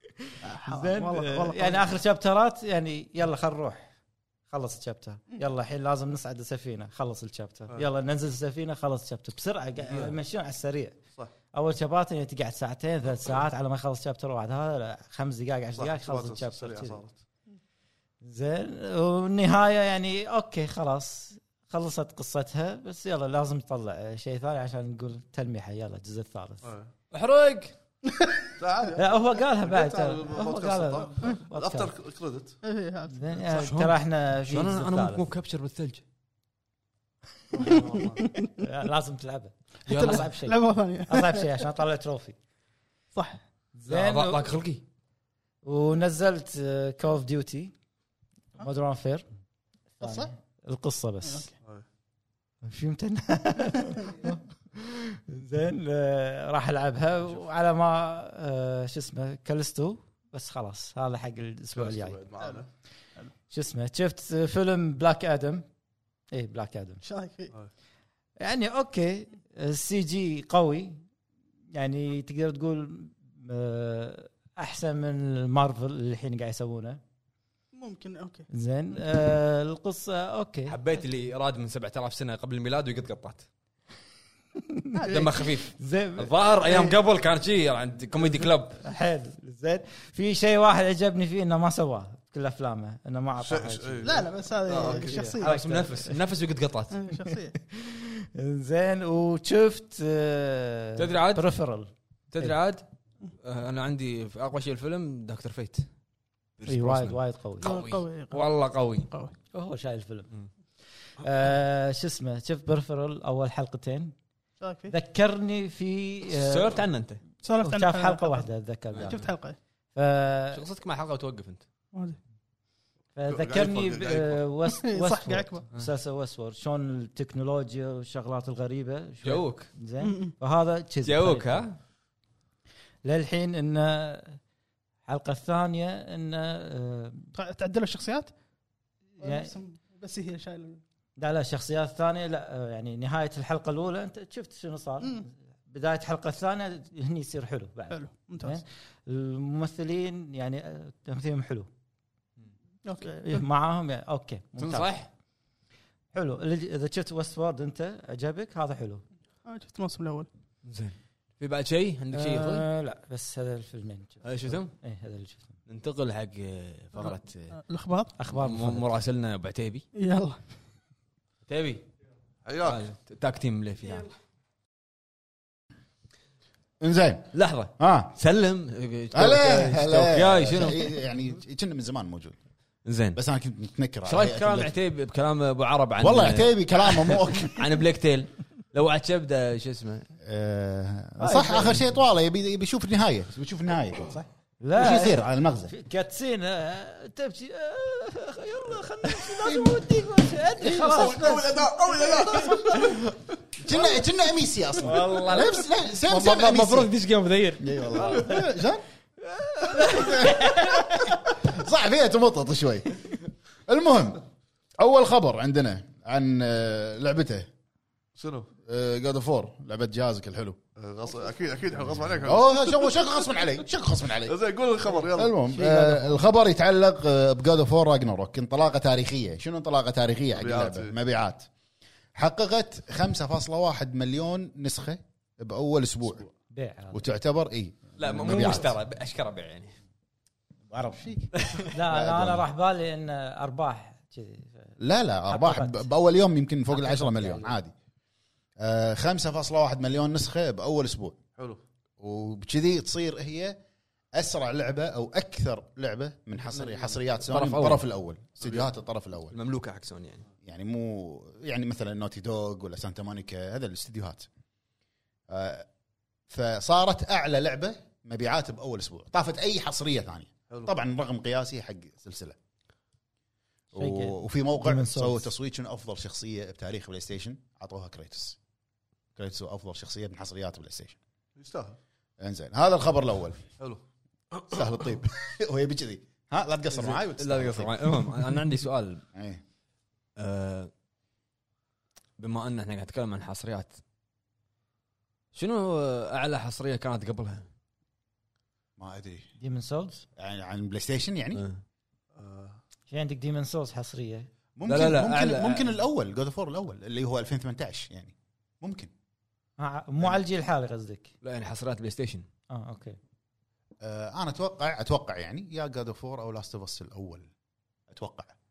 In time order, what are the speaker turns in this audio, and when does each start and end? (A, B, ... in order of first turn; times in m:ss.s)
0:00.2-0:03.9 A
0:00.4-0:01.9 B
0:04.5-0:11.0 A
0:09.8-0:10.2 C
0:11.5-0:17.0 A
0:15.8-0:17.2 C
0:18.2-0:26.7 A
0:26.6-0:26.9 C
0:27.1-0:27.7 D
0:28.6-0:32.6 C
0:29.0-0:31.9 A
0:32.6-0:33.4 B
0:33.1-0:35.2 A
0:33.5-0:36.0 D
0:37.5-0:38.3 C
0:37.7-0:38.6 B
0:38.6-0:42.4 A
0:39.9-0:40.2 D
0:39.9-0:41.7 B
0:43.2-0:43.4 B
0:43.8-0:44.4 A
0:43.9-0:44.8 D
0:45.6-0:47.7 A
0:48.6-0:49.2 A
0:50.0-0:51.5 A
0:50.0-0:50.3 B
0:51.2-0:51.5 B
0:52.6-1:02.2 A
1:01.7-1:02.7 C
1:03.5-1:05.7 A
1:06.3-1:07.0 A
1:07.0-1:07.5 B
1:08.4-1:11.0 A
1:11.7-1:17.0 A
1:17.7-1:18.5 B
1:18.5-1:20.8 A
1:20.7-1:23.5 D
1:24.6-1:26.9 A
1:24.9-1:25.4 B
1:25.1-1:28.8 D
1:28.8-1:36.1 A
1:33.4-1:35.3 C
1:34.0-1:35.6 B
1:35.4-1:37.0 D
1:36.9-1:37.6 B
1:37.1-1:42.6 A
1:41.0-1:41.5 D
1:42.3-1:42.8 D
1:43.4-1:45.9 D
1:46.6-1:49.1 D
1:46.7-1:47.8 A
1:47.6-1:48.5 B
1:49.1-1:49.3 B
1:49.5-1:50.3 A
1:51.2-1:54.1 A
1:54.6-1:54.9 B
1:54.9-1:56.8 A
1:56.3-1:57.2 D
1:57.4-1:58.5 B
1:57.6-1:59.3 A
1:58.9-1:59.3 D
1:59.1-1:59.6 B
2:00.0-2:00.6 A
2:00.5-2:01.6 D
2:01.9-2:02.2 B
2:03.2-2:11.6 A
2:03.3-2:04.4 C
2:04.7-2:05.6 B
2:09.2-2:09.7 D
2:10.0-2:10.3 B
2:11.0-2:11.8 D
2:13.0-2:14.4 A
2:15.1-2:17.3 A
2:17.4-2:18.3 B
2:19.2-2:20.8 B
2:19.2-2:19.5 A
2:21.2-2:31.7 A
2:25.0-2:25.3 B
2:27.9-2:28.6 B
2:32.8-2:33.5 B
2:33.1-2:34.9 A
2:34.6-2:35.1 D
2:36.1-2:39.0 A
2:39.5-2:40.3 B
2:40.6-2:42.7 D
2:42.1-2:45.5 A
2:44.2-2:44.8 D
2:45.7-2:47.5 D
2:47.0-2:48.2 B
2:48.2-2:48.9 A
2:48.3-2:49.9 D
2:50.0-2:50.4 B
2:51.5-2:51.9 D
2:52.4-2:52.8 C
2:52.6-2:54.1 D
2:56.8-2:58.1 E
2:57.3-3:00.9 D
2:59.1-3:02.4 E
3:02.8-3:03.2 D
3:03.2-3:04.7 E
3:04.1-3:10.1 D
3:06.0-3:07.7 E
3:10.2-3:15.7 E
3:11.2-3:11.8 A
3:14.6-3:23.0 A
3:19.3-3:19.8 E
3:20.6-3:21.1 E
3:20.7-3:23.1 C
3:22.4-3:22.8 E
3:23.6-3:26.9 E
3:24.8-3:27.9 D
3:27.6-3:28.8 E
3:28.0-3:28.4 C
3:29.3-3:31.2 A
3:29.8-3:33.0 E
3:33.7-3:34.2 E
3:34.8-3:37.5 E
3:38.2-3:38.5 C
3:38.6-3:40.6 E
3:40.8-3:43.0 C
3:42.2-3:44.4 E
3:44.2-3:45.4 C
3:45.0-3:51.5 E
3:45.5-3:46.2 A
3:50.3-3:51.0 C
3:52.2-3:56.3 E
3:56.5-3:57.0 A
3:56.9-3:58.7 E
3:58.0-3:59.7 D
4:00.7-4:02.4 E
4:01.4-4:01.7 D
4:01.7-4:04.7 A
4:04.8-4:07.7 E
4:05.3-4:05.8 A
4:06.7-4:07.5 A
4:08.6-4:11.2 E
4:12.0-4:13.6 E
4:14.1-4:19.4 E
4:17.3-4:17.9 D
4:18.4-4:18.7 C
4:19.3-4:20.2 D
4:20.4-4:24.3 E
4:25.3-4:25.7 E
4:26.3-4:32.4 E
4:33.7-4:38.4 E
4:33.8-4:35.3 A
4:39.2-4:41.0 E
4:41.4-4:41.8 C
4:42.2-4:43.4 E
4:44.4-4:48.2 E
4:46.8-4:49.0 D
4:49.1-4:49.4 E
4:50.2-4:50.7 D
4:52.2-4:53.8 D
4:55.3-4:57.5 D
4:58.8-4:59.3 E
4:59.4-5:00.0 A
5:00.2-5:01.4 E
5:01.4-5:01.6 D
5:02.2-5:02.6 C
5:02.9-5:04.3 A
5:04.6-5:08.9 E
5:04.7-5:05.7 D
5:09.6-5:11.1 A
5:11.2-5:12.3 D
5:12.5-5:13.0 A
5:13.8-5:17.3 E
5:17.9-5:18.3 E